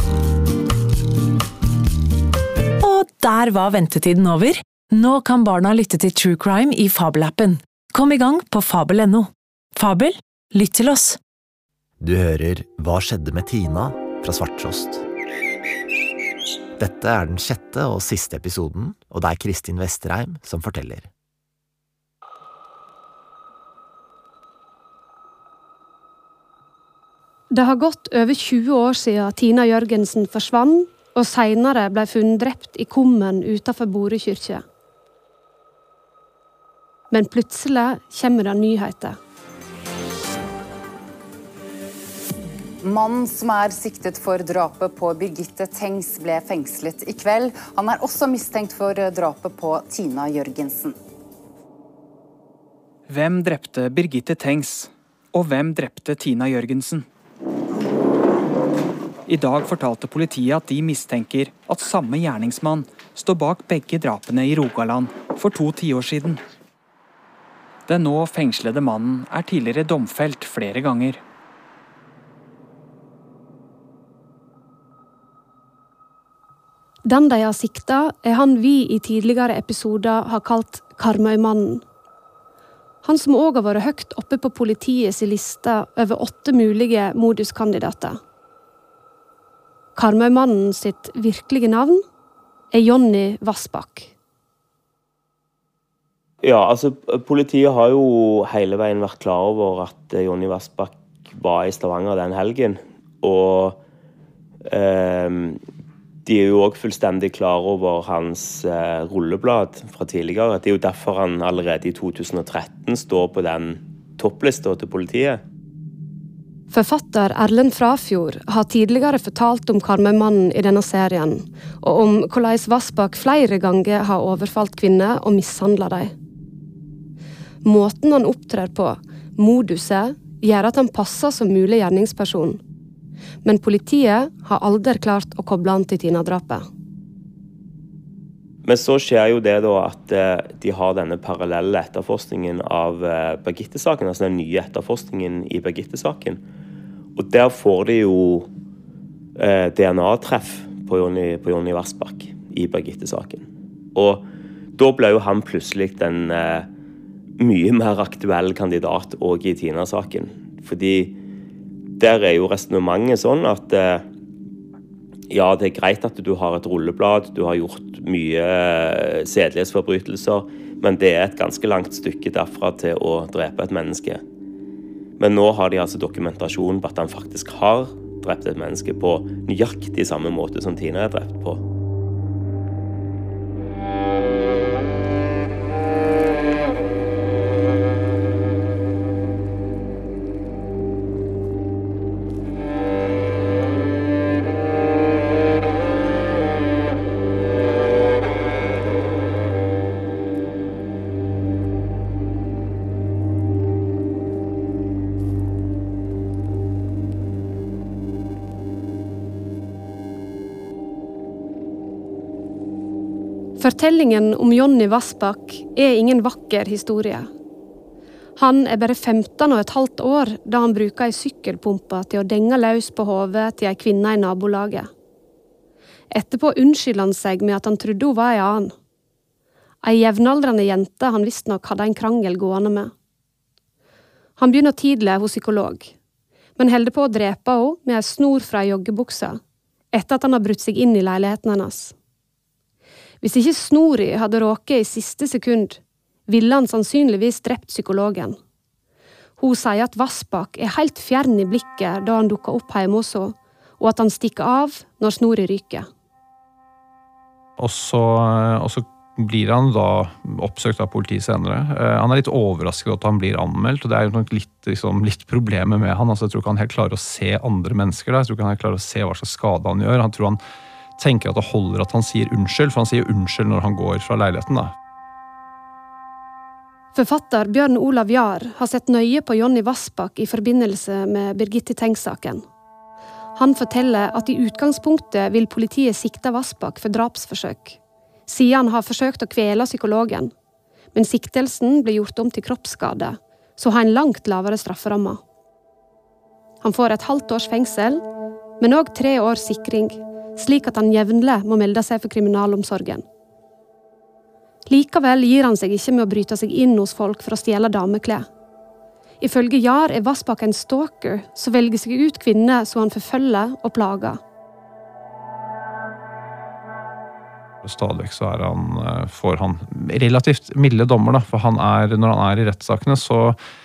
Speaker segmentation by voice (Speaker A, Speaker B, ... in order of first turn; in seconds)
Speaker A: 2.8-11.2
Speaker B: 12.0-15.0, 16.8-21.1
Speaker C: 27.5-34.6, 37.1-39.2, 77.0-81.8, 83.0-88.2, 90.0-92.0, 92.7-94.1, 116.7-126.1, 127.6-132.6, 133.4-136.7, 213.6-217.3, 218.4-224.9, 226.1-228.7, 229.8-232.9, 234.4-235.9, 236.6-239.4, 239.9-241.9, 243.2-248.4, 249.4-255.9, 276.9-282.4, 283.4-290.3, 290.9-295.2, 296.6-298.0, 298.6-303.0, 304.7-308.3, 309.2-314.2
Speaker D: 42.8-51.0
Speaker E: 53.1-57.0, 59.3-66.4, 67.9-71.2
Speaker F: 96.4-103.8, 104.7-105.6, 106.2-115.4, 138.6-146.4, 147.2-148.5, 149.4-154.2, 154.8-156.7, 157.4-161.1, 162.0-164.0, 165.3-174.2, 175.2-181.6
Speaker G: 257.6-270.4, 271.0-274.7, 317.6-323.4